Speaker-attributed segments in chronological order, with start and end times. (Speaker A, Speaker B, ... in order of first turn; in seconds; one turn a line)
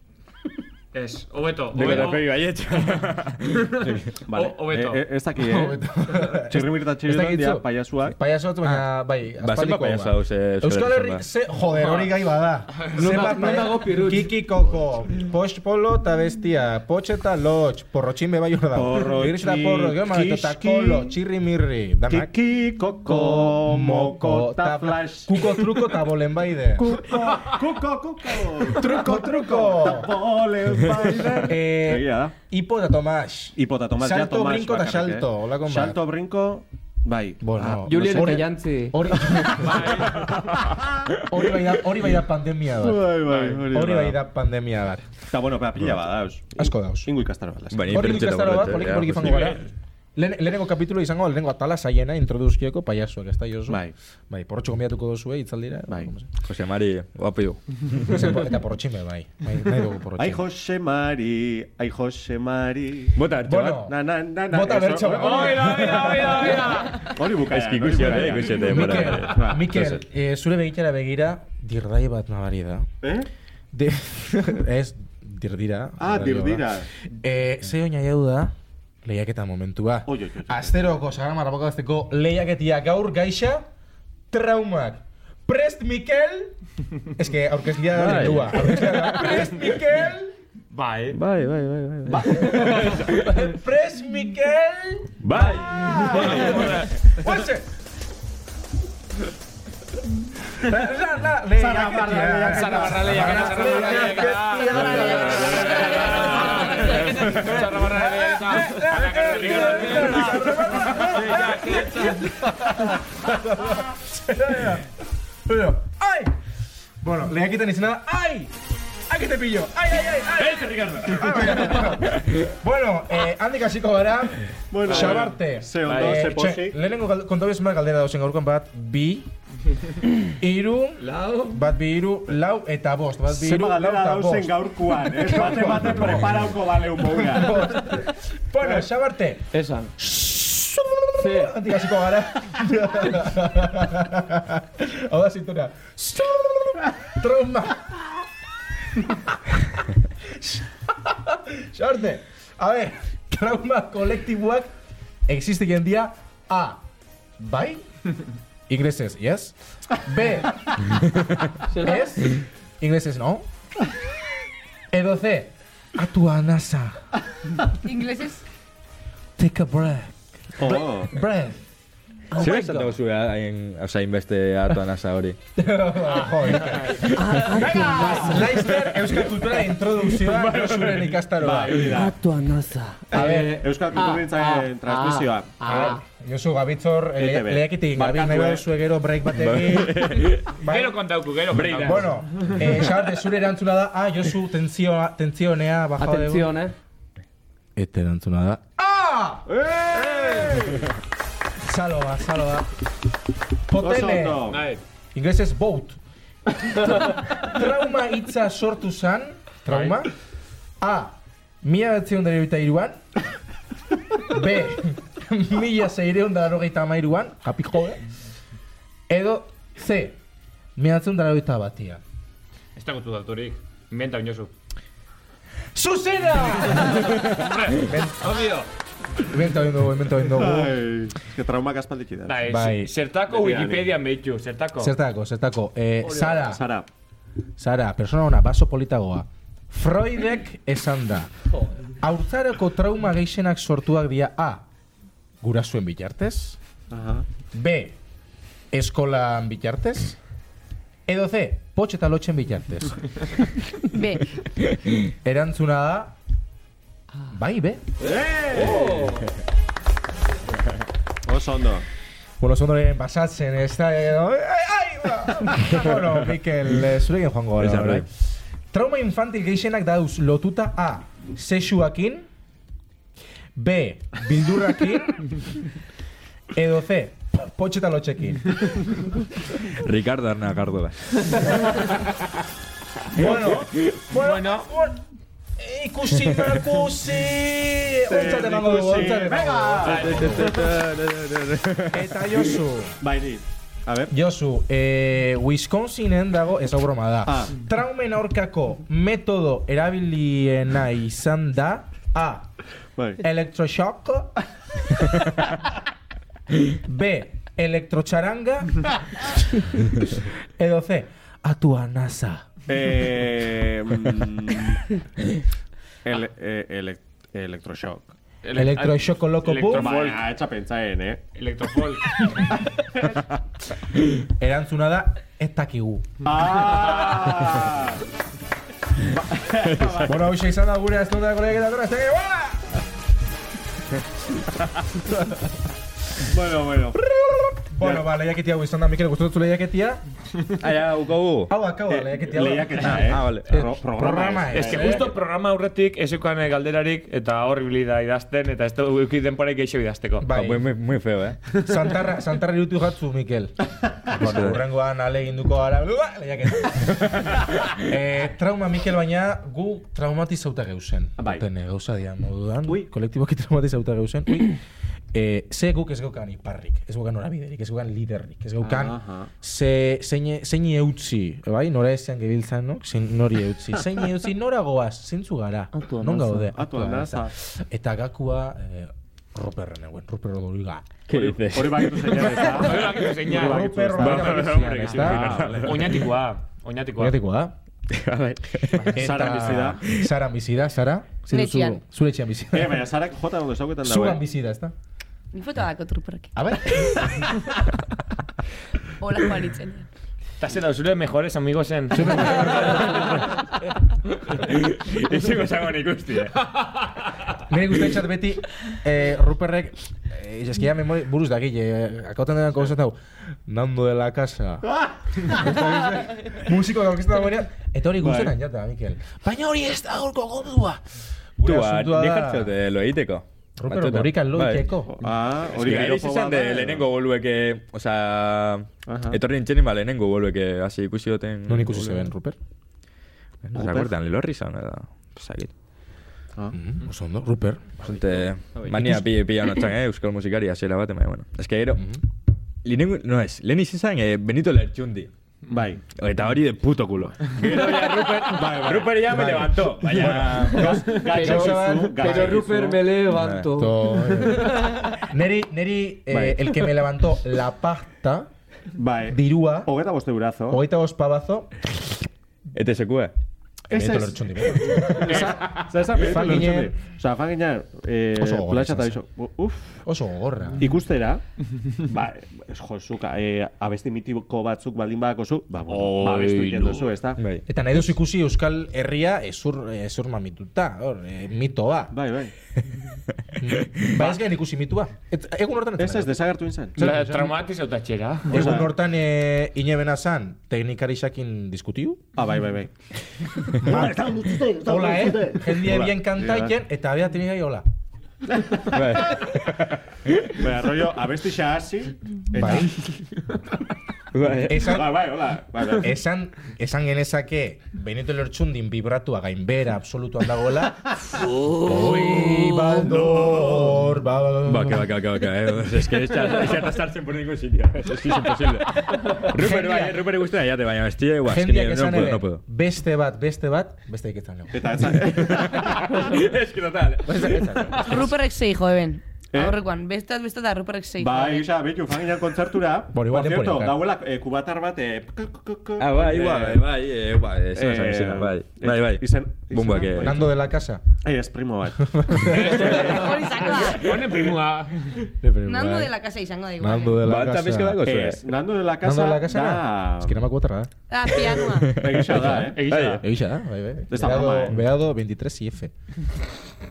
Speaker A: 0.9-3.0
Speaker B: 1.7-4.1
Speaker A: 3.6-5.0
Speaker C: 4.3-8.2
Speaker D: 5.4-22.3
Speaker B: 9.4-11.2
Speaker E: 12.9-14.4
Speaker C: 18.7-21.2
Speaker C: 22.1-25.9
Speaker D: 23.1-27.1
Speaker C: 26.8-32.4
Speaker D: 28.6-30.1
Speaker D: 31.3-36.0
Speaker C: 33.6-38.1
Speaker D: 37.4-40.1
Speaker E: 37.8-39.6
Speaker A: 39.6-40.7
Speaker C: 39.9-41.1
Speaker D: 41.2-43.2
Speaker C: 42.7-44.2
Speaker A: 43.3-43.6
Speaker D: 43.7-45.1
Speaker C: 45.3-48.2
Speaker D: 46.6-47.1
Speaker B: 47.7-49.6
Speaker D: 47.9-56.3
Speaker C: 53.7-54.0
Speaker B: 56.4-58.1
Speaker D: 58.0-60.4
Speaker C: 60.2-63.2
Speaker B: 63.1-63.8
Speaker D: 63.5-64.0
Speaker C: 63.8-70.0
Speaker D: 64.5-66.7
Speaker A: 65.1-67.2
Speaker B: 67.4-69.4
Speaker D: 68.6-72.9
Speaker C: 73.0-73.3
Speaker D: 73.7-78.5
Speaker C: 76.0-76.9
Speaker D: 79.0-83.7
Speaker C: 80.1-80.9
Speaker D: 84.3-86.5
Speaker D: 87.1-90.3
Speaker B: 87.9-89.2
Speaker A: 90.7-91.2
Speaker B: 91.1-93.2
Speaker D: 92.1-97.7
Speaker E: 92.3-92.8
Speaker B: 95.2-96.4
Speaker C: 95.7-96.8
Speaker A: 96.1-96.9
Speaker D: 100.5-114.9
Speaker C: 101.5-106.8
Speaker A: 102.5-112.3
Speaker F: 104.7-107.1
Speaker C: 111.0-111.5
Speaker D: 115.5-116.3
Speaker D: 117.0-118.5
Speaker D: 119.1-129.3
Speaker A: 120.5-121.2
Speaker C: 124.7-126.8
Speaker A: 124.9-126.4
Speaker D: 130.2-136.4
Speaker A: 131.0-131.6
Speaker C: 133.3-138.0
Speaker D: 137.0-148.2
Speaker E: 139.5-139.9
Speaker E: 141.2-141.5
Speaker D: 149.0-154.7
Speaker D: 155.3-156.8
Speaker D: 157.4-157.8
Speaker D: 158.7-163.5
Speaker E: 161.7-162.1
Speaker D: 164.9-167.1
Speaker F: 167.8-168.4
Speaker D: 169.4-171.6
Speaker C: 170.6-171.2
Speaker D: 172.3-172.9
Speaker B: 172.4-175.4
Speaker D: 175.6-182.0
Speaker A: 176.1-177.1
Speaker E: 177.1-178.7
Speaker A: 180.2-181.2
Speaker C: 181.4-182.2
Speaker E: 181.9-186.0
Speaker D: 183.1-183.7
Speaker C: 183.2-186.0
Speaker D: 185.7-196.5
Speaker C: 187.2-188.7
Speaker B: 189.3-190.5
Speaker A: 190.6-192.7
Speaker B: 191.5-192.1
Speaker E: 196.0-196.7
Speaker D: 197.8-199.5
Speaker C: 199.5-200.9
Speaker D: 200.1-200.7
Speaker D: 201.6-202.7
Speaker D: 203.7-204.5
Speaker C: 203.8-204.7
Speaker A: 204.5-204.8
Speaker D: 205.1-206.0
Speaker D: 206.6-210.1
Speaker D: 210.8-213.0
Speaker D: 214.2-218.0
Speaker D: 219.1-220.2
Speaker D: 220.8-222.0
Speaker A: 222.8-224.5
Speaker D: 225.8-228.3
Speaker A: 227.2-228.7
Speaker D: 229.2-230.8
Speaker C: 230.2-232.5
Speaker A: 232.3-234.9
Speaker D: 232.4-232.9
Speaker C: 233.3-234.0
Speaker D: 234.8-236.6
Speaker C: 236.2-236.9
Speaker D: 237.6-241.3
Speaker D: 242.0-244.7
Speaker D: 245.4-246.6
Speaker C: 246.9-247.3
Speaker D: 247.5-248.0
Speaker D: 248.7-250.2
Speaker D: 251.1-253.3
Speaker F: 253.9-254.3
Speaker D: 255.1-256.1
Speaker D: 257.3-257.9
Speaker C: 258.0-259.1
Speaker E: 258.6-259.3
Speaker C: 261.2-261.9
Speaker D: 262.4-268.1
Speaker B: 267.6-268.1
Speaker D: 268.7-272.3
Speaker D: 273.6-275.5
Speaker D: 276.5-279.1
Speaker B: 279.7-281.4
Speaker D: 283.1-285.0
Speaker A: 284.1-284.7
Speaker D: 285.6-290.5
Speaker C: 288.1-290.8
Speaker A: 289.8-290.5
Speaker B: 289.9-292.1
Speaker D: 291.9-293.0
Speaker C: 293.0-294.1
Speaker D: 294.1-302.5
Speaker C: 297.3-297.6
Speaker C: 303.0-303.2
Speaker D: 303.2-305.4
Speaker D: 306.7-312.5
Speaker C: 312.7-314.8
Speaker C: 316.0-318.1
Speaker A: 318.4-320.3
Speaker D: 318.6-320.0
Speaker C: 319.7-321.2
Speaker A: 321.4-322.6
Speaker D: 324.2-326.2
Speaker C: 326.2-328.0
Speaker C: 329.0-330.3
Speaker B: 329.7-330.0
Speaker D: 330.1-332.8
Speaker D: 335.1-335.4
Speaker C: 336.2-337.0
Speaker D: 336.9-340.0
Speaker C: 337.8-338.1
Speaker B: 340.6-341.5
Speaker D: 341.5-345.1
Speaker C: 341.9-345.2
Speaker B: 342.8-343.5
Speaker A: 344.5-350.3
Speaker D: 350.2-350.6
Speaker B: 350.3-351.4
Speaker D: 351.6-364.6
Speaker B: 354.1-354.6
Speaker C: 361.2-361.5
Speaker D: 365.1-380.9
Speaker C: 368.6-369.3
Speaker E: 375.7-376.5
Speaker C: 376.6-377.3
Speaker B: 381.1-382.9
Speaker C: 381.1-386.0
Speaker A: 382.4-387.2
Speaker D: 383.2-385.3
Speaker B: 384.0-386.0
Speaker D: 387.0-387.6
Speaker B: 387.9-389.1
Speaker D: 388.7-392.9
Speaker C: 388.9-389.8
Speaker F: 391.3-391.8
Speaker C: 392.5-394.2
Speaker D: 393.8-394.7
Speaker F: 395.3-396.3
Speaker D: 396.4-397.5
Speaker F: 399.0-399.9
Speaker A: 400.4-403.3
Speaker D: 401.9-403.3
Speaker B: 404.4-406.3
Speaker A: 405.1-407.0
Speaker D: 407.5-413.0
Speaker D: 413.5-414.7
Speaker C: 414.6-415.3
Speaker D: 415.2-420.8
Speaker C: 418.0-418.4
Speaker D: 421.4-422.5
Speaker B: 421.4-424.7
Speaker D: 423.6-425.0
Speaker C: 424.9-426.9
Speaker B: 425.5-432.1
Speaker C: 428.9-429.2
Speaker D: 431.5-432.4
Speaker B: 433.4-435.5
Speaker C: 433.6-433.9
Speaker D: 436.5-437.8
Speaker B: 437.8-441.9
Speaker D: 438.7-439.0
Speaker B: 442.6-445.1
Speaker C: 445.5-445.8
Speaker B: 445.9-450.8
Speaker C: 447.8-449.3
Speaker D: 449.1-452.4
Speaker C: 449.9-452.8
Speaker E: 450.9-454.9
Speaker B: 453.1-453.5
Speaker D: 453.5-458.3
Speaker C: 456.1-456.5
Speaker C: 458.8-460.6
Speaker D: 459.1-459.7
Speaker D: 460.5-461.6
Speaker B: 462.5-463.1
Speaker D: 463.7-466.8
Speaker C: 463.7-469.8
Speaker D: 468.2-469.0
Speaker D: 469.9-470.6
Speaker C: 470.6-477.2
Speaker A: 475.8-476.9
Speaker B: 477.2-477.4
Speaker D: 477.5-481.9
Speaker C: 481.9-482.3
Speaker D: 483.4-486.2
Speaker C: 485.8-486.9
Speaker D: 486.8-487.4
Speaker A: 486.8-488.6
Speaker C: 488.3-488.7
Speaker D: 488.3-492.0
Speaker C: 492.1-492.7
Speaker D: 493.6-497.6
Speaker C: 493.6-496.6
Speaker C: 498.3-498.6
Speaker B: 498.6-500.4
Speaker C: 500.4-502.8
Speaker D: 502.3-502.8
Speaker B: 504.1-504.8
Speaker D: 504.5-505.0
Speaker C: 504.5-506.0
Speaker D: 505.8-514.9
Speaker B: 511.3-512.5
Speaker C: 513.0-513.7
Speaker B: 514.5-522.4
Speaker D: 519.1-520.0
Speaker D: 521.3-525.0
Speaker C: 524.5-526.0
Speaker B: 525.0-527.8
Speaker D: 527.1-528.0
Speaker F: 527.8-531.5
Speaker C: 529.3-529.6
Speaker C: 531.0-536.7
Speaker D: 532.9-533.8
Speaker B: 535.8-540.2
Speaker C: 537.5-540.4
Speaker D: 540.0-540.8
Speaker C: 541.0-543.2
Speaker D: 541.8-542.9
Speaker A: 542.3-545.1
Speaker F: 542.6-544.0
Speaker D: 545.2-545.9
Speaker F: 545.4-547.0
Speaker D: 546.6-547.8
Speaker B: 547.0-548.2
Speaker C: 547.8-550.2
Speaker D: 548.8-550.7
Speaker F: 550.9-551.9
Speaker B: 551.6-553.0
Speaker C: 551.8-552.6
Speaker D: 552.1-555.7
Speaker A: 552.3-553.0
Speaker C: 553.9-554.6